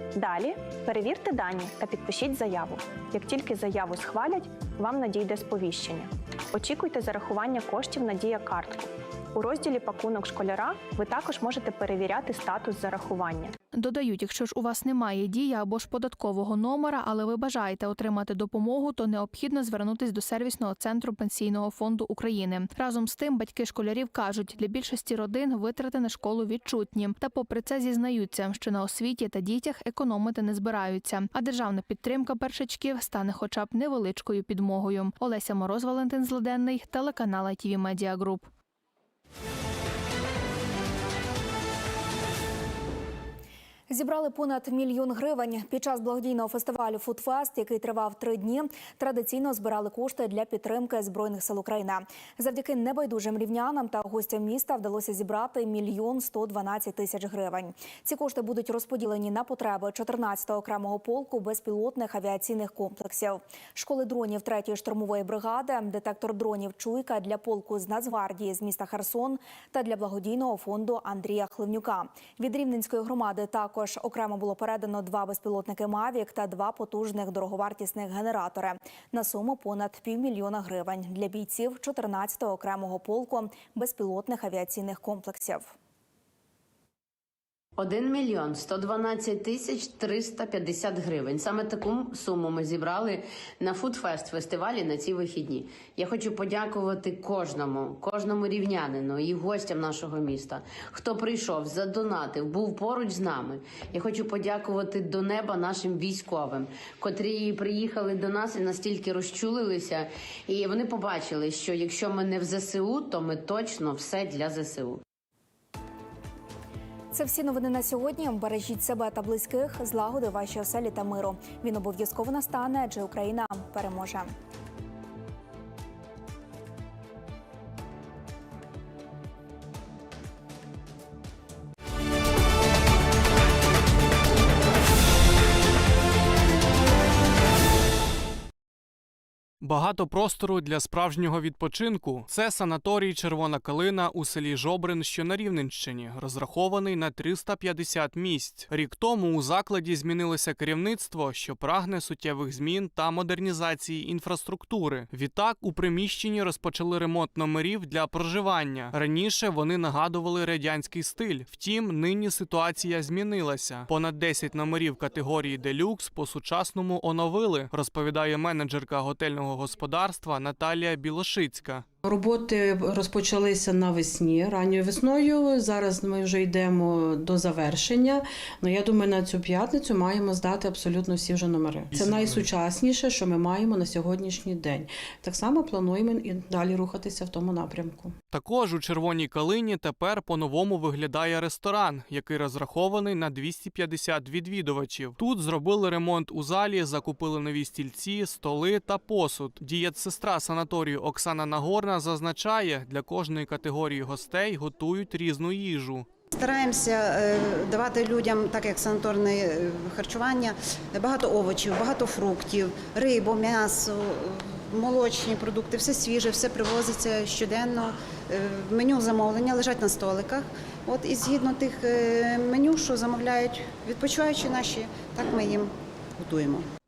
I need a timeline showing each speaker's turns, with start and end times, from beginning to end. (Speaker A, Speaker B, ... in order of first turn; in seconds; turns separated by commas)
Speaker A: 0.1-13.5, Speaker B: 13.7-38.5, Speaker C: 43.9-85.7, Speaker D: 87.8-115.0, Speaker C: 117.1-124.3, Speaker E: 139.6-171.8, Speaker F: 172.0-188.1, Speaker E: 181.9-182.4, Speaker E: 188.3-206.1, Speaker G: 206.3-226.7